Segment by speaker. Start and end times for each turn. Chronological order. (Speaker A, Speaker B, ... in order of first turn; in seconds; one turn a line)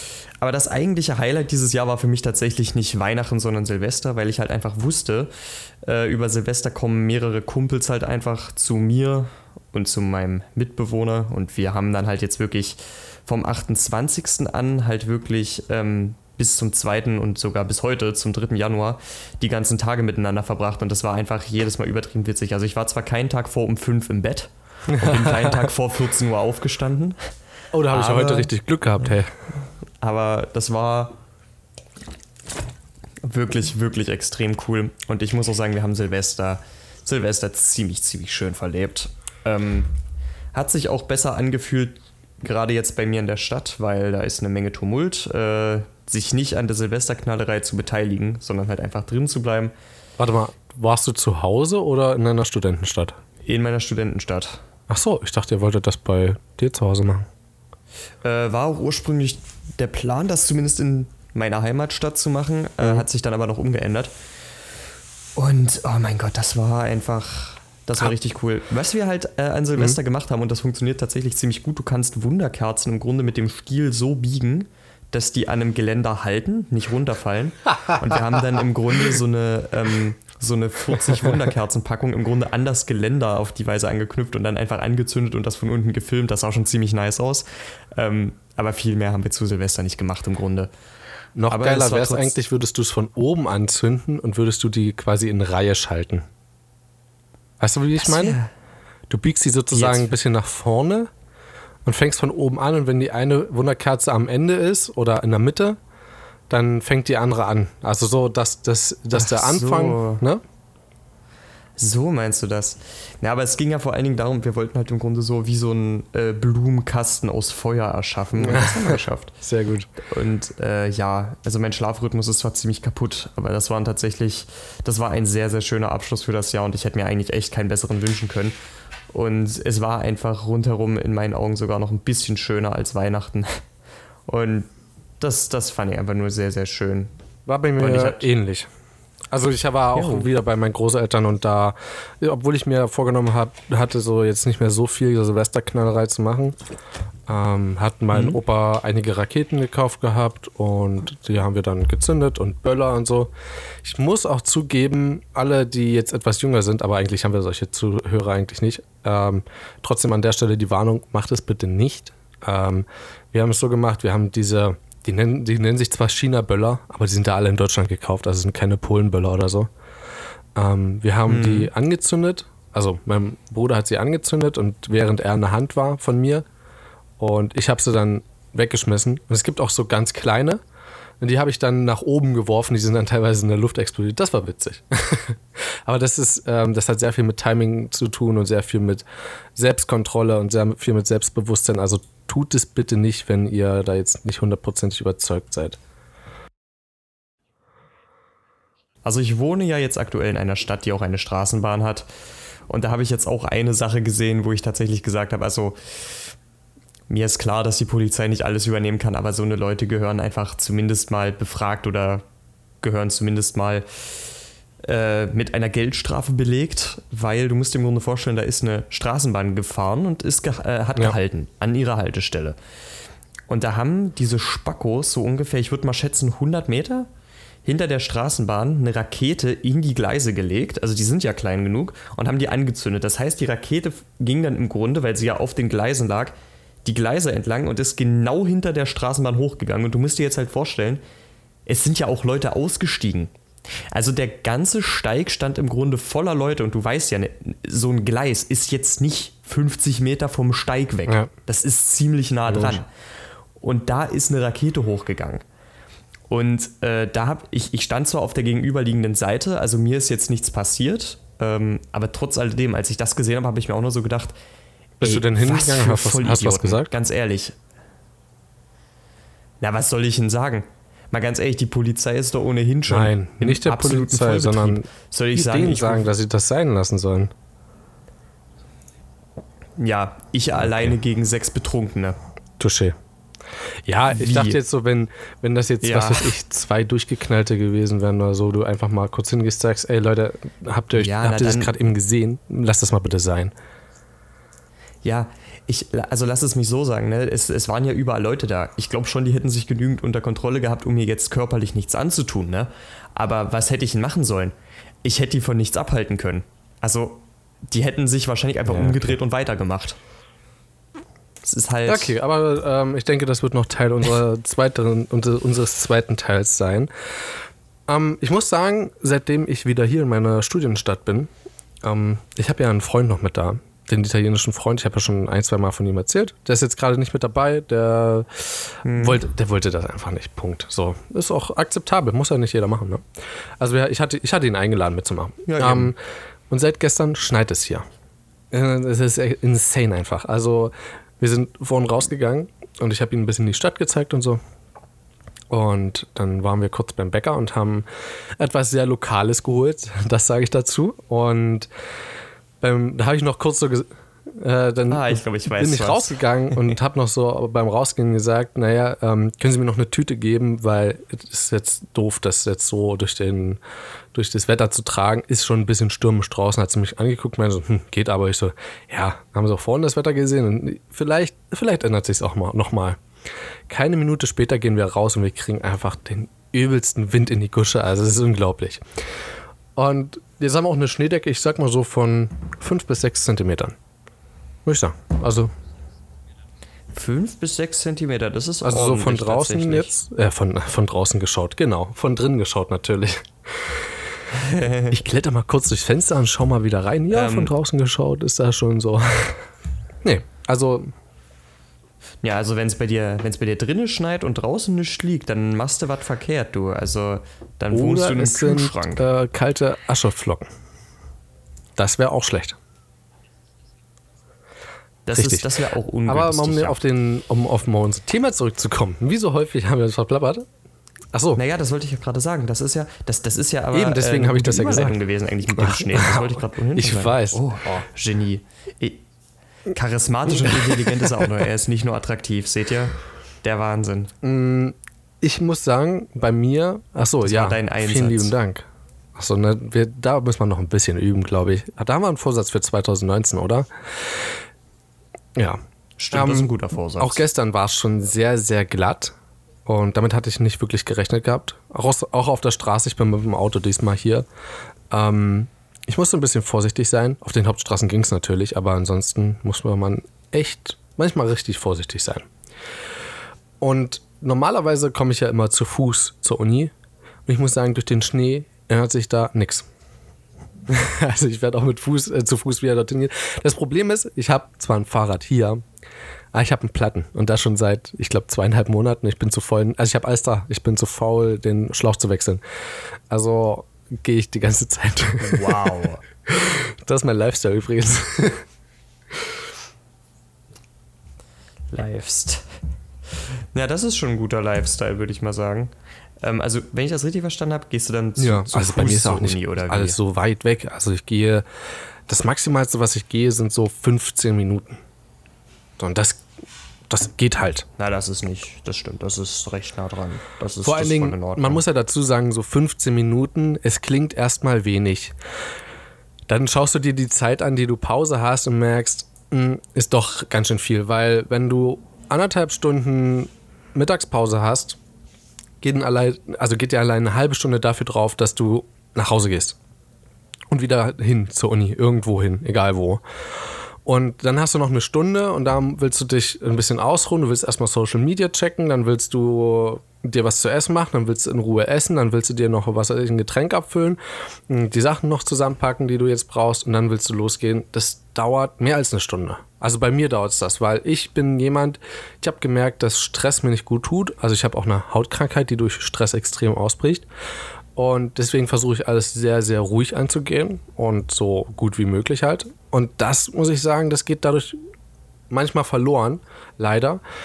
Speaker A: 0.4-5.3
Speaker A: 5.8-27.3
Speaker B: 24.9-25.7
Speaker B: 27.7-29.3
Speaker A: 27.9-28.5
Speaker A: 30.0-31.2
Speaker A: 33.2-39.9
Speaker A: 40.5-49.7
Speaker B: 50.2-53.2
Speaker A: 53.5-54.6
Speaker B: 54.9-57.3
Speaker A: 58.2-64.1
Speaker A: 65.4-90.7
Speaker B: 91.4-96.3
Speaker A: 91.5-92.4
Speaker B: 97.6-98.4
Speaker A: 98.0-98.5
Speaker B: 99.1-101.1
Speaker A: 99.7-100.1
Speaker B: 101.8-105.8
Speaker B: 106.5-110.4
Speaker A: 109.1-110.2
Speaker A: 111.8-119.3
Speaker B: 118.4-119.9
Speaker A: 120.0-128.6
Speaker A: 129.1-133.6
Speaker A: 134.3-134.7
Speaker A: 135.2-137.1
Speaker B: 137.5-138.7
Speaker A: 137.8-138.3
Speaker B: 139.3-146.6
Speaker A: 139.9-140.3
Speaker B: 147.3-169.7
Speaker A: 148.1-148.4
Speaker B: 170.6-176.4
Speaker A: 171.3-171.7
Speaker B: 177.2-180.6
Speaker B: 181.2-189.0
Speaker B: 189.6-195.8
Speaker A: 199.1-202.1
Speaker A: 202.7-206.3
Speaker A: 207.1-212.2
Speaker A: 212.8-213.9
Speaker A: 214.8-222.6
Speaker A: 223.5-227.1
Speaker A: 227.7-236.3
Speaker A: 236.8-241.0
Speaker A: 241.7-243.3
Speaker A: 243.9-252.9
Speaker B: 252.5-252.8
Speaker A: 253.6-255.4
Speaker A: 256.3-264.4
Speaker B: 265.0-266.9
Speaker A: 265.0-267.6
Speaker A: 269.6-276.1
Speaker B: 272.9-277.3
Speaker A: 279.8-282.2
Speaker B: 282.6-283.0
Speaker B: 283.9-293.5
Speaker A: 284.1-284.6
Speaker A: 285.8-286.3
Speaker A: 290.9-291.8
Speaker A: 295.0-310.0
Speaker B: 308.7-309.2
Speaker A: 311.4-312.2
Speaker B: 311.9-317.4
Speaker B: 317.9-321.3
Speaker B: 321.8-333.1
Speaker A: 328.8-329.2
Speaker B: 333.6-336.0
Speaker A: 335.5-335.9
Speaker B: 336.5-337.9
Speaker B: 338.5-344.4
Speaker B: 345.5-347.9
Speaker B: 348.4-351.7
Speaker B: 352.6-363.6
Speaker A: 354.9-356.6
Speaker B: 364.1-373.0
Speaker B: 373.7-378.9
Speaker B: 379.8-383.8
Speaker B: 384.7-385.5
Speaker A: 386.9-389.9
Speaker B: 388.6-394.0
Speaker A: 394.3-395.0
Speaker B: 394.9-399.5
Speaker A: 397.1-397.6
Speaker B: 400.0-400.9
Speaker A: 402.2-409.1
Speaker B: 407.7-410.5
Speaker B: 411.8-412.6
Speaker A: 415.1-416.8
Speaker B: 415.1-415.5
Speaker B: 416.1-420.4
Speaker B: 421.1-421.4
Speaker A: 421.4-429.0
Speaker B: 423.7-427.4
Speaker A: 429.7-434.1
Speaker B: 430.3-431.3
Speaker B: 434.2-444.4
Speaker A: 437.2-438.3
Speaker B: 445.4-445.6
Speaker A: 446.0-447.2
Speaker B: 446.1-454.2
Speaker B: 454.9-462.3
Speaker B: 463.6-466.7
Speaker B: 467.3-469.7
Speaker B: 470.7-475.6
Speaker B: 476.3-482.4
Speaker B: 483.1-485.8
Speaker A: 485.2-486.0
Speaker B: 486.3-488.4
Speaker A: 491.7-492.4
Speaker A: 493.5-495.7
Speaker A: 496.2-500.0
Speaker B: 498.2-501.4
Speaker B: 502.1-504.8
Speaker B: 505.8-506.3
Speaker B: 506.9-507.7
Speaker A: 507.8-511.6
Speaker B: 510.6-515.1
Speaker B: 516.3-524.8
Speaker B: 525.6-529.6
Speaker B: 530.5-557.1
Speaker B: 557.8-564.6
Speaker B: 565.3-567.0